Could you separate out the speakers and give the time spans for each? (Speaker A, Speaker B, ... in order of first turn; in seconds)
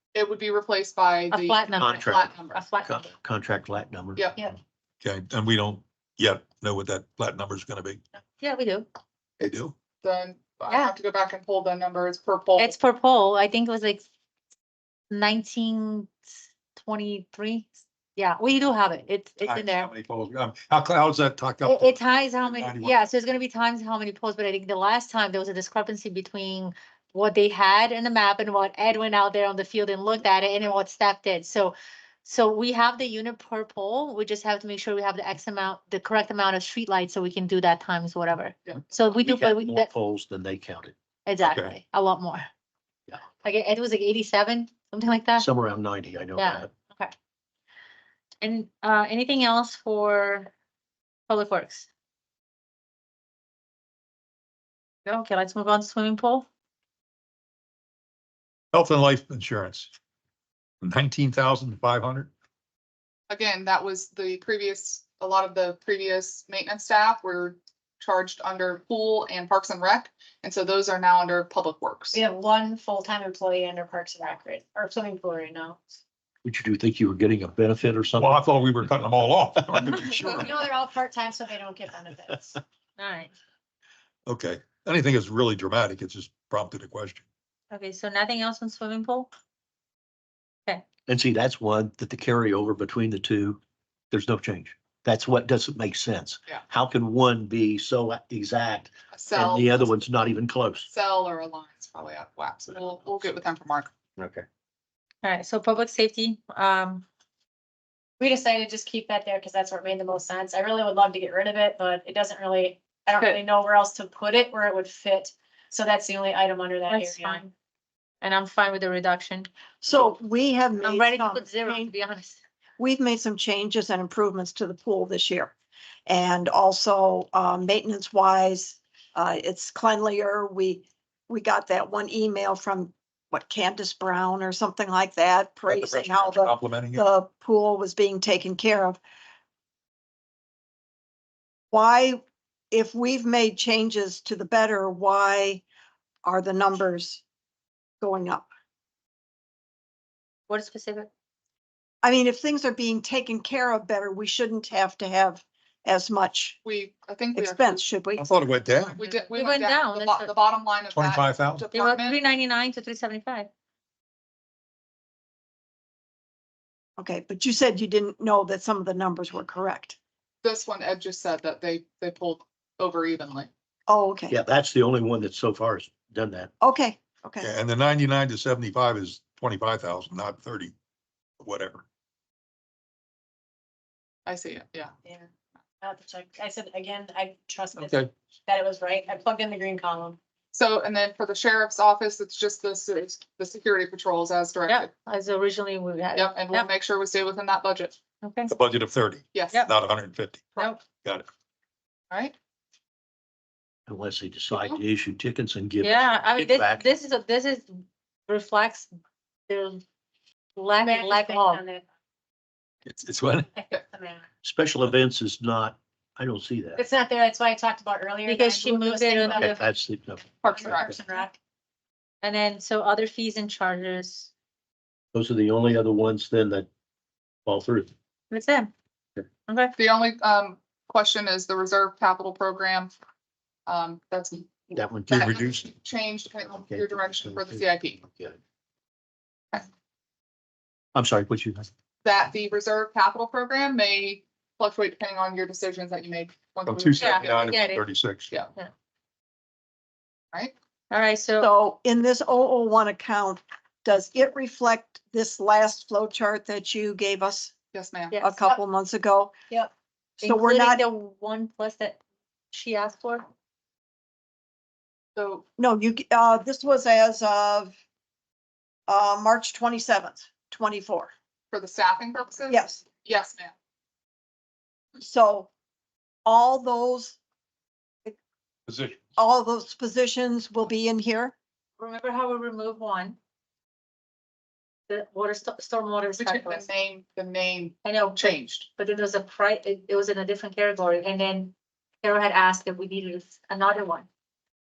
Speaker A: 0.1-2.7, 9.4-12.8, 38.7-39.1, 63.3-72.2, 99.1-99.9, 100.9-103.9, 113.2-113.4, 156.6-157.8, 159.0-162.2, 170.4-173.5, 184.3-184.9, 190.5-194.9, 196.2-198.0, 199.3-199.7, 204.5-204.8, 220.4-221.1, 229.8-232.9, 233.7-238.0, 242.0-247.7, 257.7-258.2, 265.2-265.4, 271.5-273.5, 286.2-288.7
Speaker B: 1.3-3.1, 8.4-8.9, 10.7-10.9, 12.6-14.0, 15.1-16.1, 16.8-19.9, 21.6-39.9, 41.2-42.5, 43.4-45.5, 46.4-47.1, 48.4-50.5, 51.3-51.9, 55.0-56.5, 83.0-83.3, 87.7-89.3, 105.2-107.1, 116.9-117.5, 118.2-119.5, 120.8-122.4, 150.5-151.1, 159.0-160.3, 161.7-163.5, 194.7-196.7, 198.2-198.5, 205.8-208.9, 209.5-209.8, 210.6-211.6, 218.2-219.6, 222.2-224.3, 228.3-228.7, 229.5-229.8, 247.0-247.8, 250.9-251.5, 258.1-258.4, 260.2-262.0, 262.5-263.3, 281.8-283.2, 284.9-286.7, 287.8-294.1
Speaker C: 1.8-2.3, 2.9-4.3, 39.3-41.0, 45.4-46.7, 76.5-78.3, 91.1-93.6, 94.1-100.9, 104.2-104.4, 174.3-176.5, 203.9-206.9, 214.4-216.8, 219.4-220.3, 225.1-226.7, 227.5-227.9, 234.7-235.7, 236.7-237.7, 240.9-241.7
Speaker D: 5.0-8.0, 9.4-9.7, 19.4-23.1, 41.4-41.8, 58.7-59.9, 60.8-62.3, 78.2-80.6, 84.3-87.3, 135.7-137.1, 158.2-159.0, 160.9-161.7, 177.4-180.7, 181.4-181.8, 187.8-188.1, 198.5-200.5, 212.8-213.5, 246.7-248.3, 278.7-279.0
Speaker E: 72.1-76.0, 79.8-82.6, 108.2-117.4, 185.8-190.2, 210.8-211.9, 213.5-214.3, 216.8-219.7, 220.5-221.4
Speaker F: 119.8-121.9, 122.8-125.5, 126.1-139.0, 141.7-145.6, 146.2-147.2, 148.0-148.5, 152.0-156.6, 157.3-158.9, 167.0-170.0, 173.9-174.3, 176.6-177.5, 251.4-257.5, 258.2-259.3, 260.2-260.8, 265.6-267.8, 268.9-271.1, 272.5-272.8, 275.0-275.5, 276.2-277.2, 279.2-281.3